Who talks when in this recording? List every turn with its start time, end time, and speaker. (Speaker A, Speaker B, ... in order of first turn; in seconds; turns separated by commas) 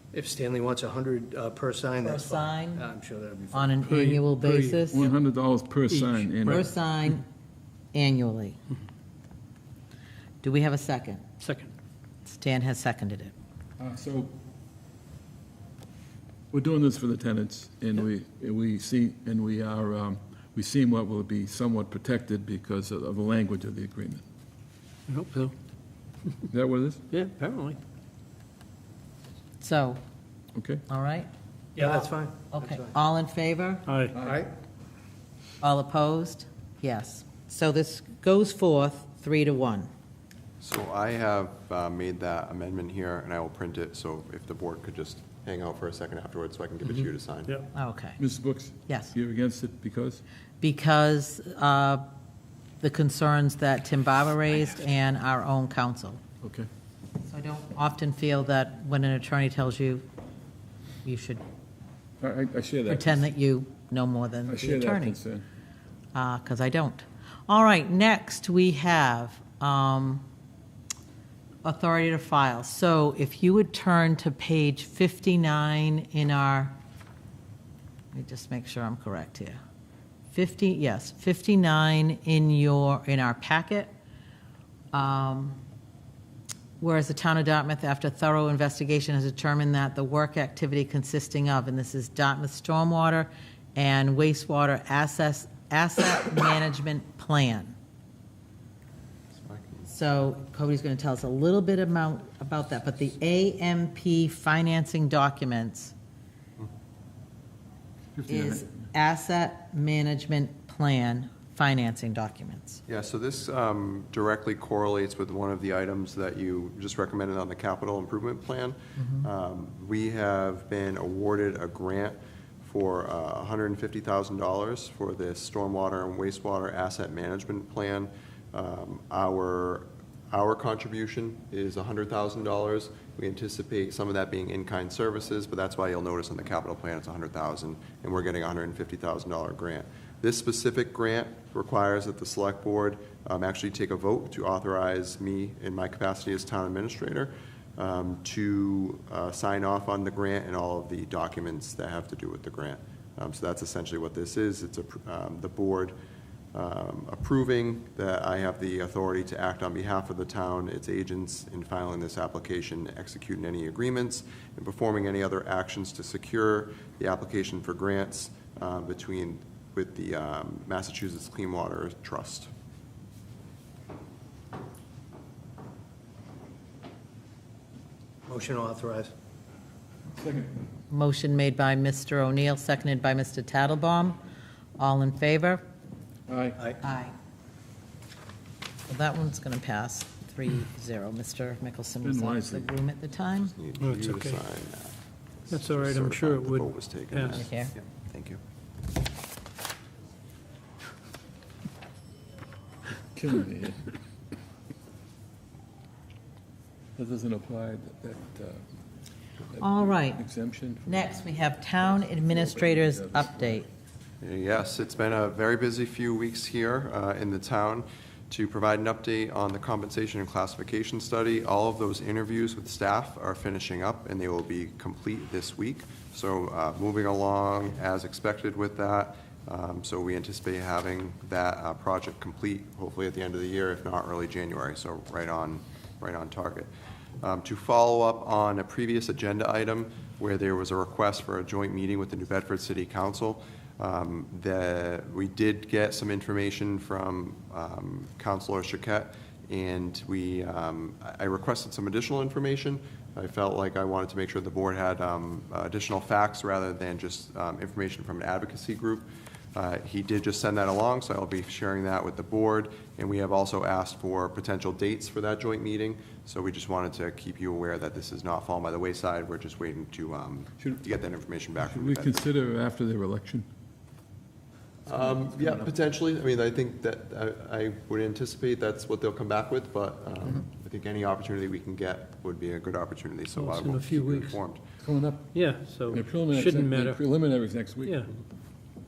Speaker A: 0.1-3.7, Speaker B: 2.0-2.9, Speaker B: 3.5-5.1, Speaker C: 3.8-5.0, Speaker D: 4.9-6.7, Speaker C: 5.9-6.3, Speaker B: 6.4-7.2, Speaker B: 7.9-8.6, Speaker B: 10.4-11.2, Speaker C: 11.4-11.7, Speaker B: 12.2-13.3, Speaker D: 13.8-14.3, Speaker D: 16.5-24.2, Speaker C: 25.1-25.5, Speaker D: 26.5-27.0, Speaker C: 27.1-27.8, Speaker B: 29.6-30.0, Speaker D: 30.6-30.8, Speaker B: 30.9-33.9, Speaker A: 31.8-32.9, Speaker C: 33.9-34.2, Speaker A: 34.2-34.5, Speaker B: 35.6-39.9, Speaker E: 40.6-47.6, Speaker B: 47.7-48.2, Speaker D: 48.2-50.2, Speaker B: 48.9-49.1, Speaker B: 50.6-52.0, Speaker B: 52.8-56.2, Speaker B: 57.2-60.0, Speaker B: 61.0-61.4, Speaker D: 62.2-63.1, Speaker B: 62.9-65.2, Speaker D: 64.5-65.4, Speaker B: 66.1-70.2, Speaker B: 71.6-76.8, Speaker B: 78.1-79.6, Speaker B: 80.3-83.9, Speaker B: 84.9-85.6, Speaker B: 86.8-97.7, Speaker E: 99.3-99.9, Speaker B: 99.9-105.9, Speaker D: 108.2-108.6, Speaker B: 108.3-112.8, Speaker E: 112.9-155.9, Speaker E: 156.5-172.5, Speaker A: 178.3-179.1, Speaker B: 180.9-184.2, Speaker B: 184.8-185.6, Speaker D: 186.3-186.6, Speaker B: 186.8-187.1, Speaker B: 188.9-193.5, Speaker D: 192.0-192.7, Speaker E: 193.6-194.9, Speaker C: 193.8-194.4, Speaker E: 195.5-198.4, Speaker C: 195.5-197.4, Speaker B: 197.3-197.7, Speaker D: 203.2-203.8, Speaker D: 207.0-208.6, Speaker D: 209.6-211.1, Speaker B: 209.6-210.2, Speaker B: 210.9-213.7, Speaker D: 212.0-213.6, Speaker E: 214.2-236.7, Speaker E: 237.2-272.2, Speaker D: 271.6-273.4, Speaker E: 274.9-284.6, Speaker C: 283.3-284.4, Speaker D: 284.8-285.3, Speaker C: 285.3-287.0, Speaker D: 285.9-288.0, Speaker C: 287.8-288.1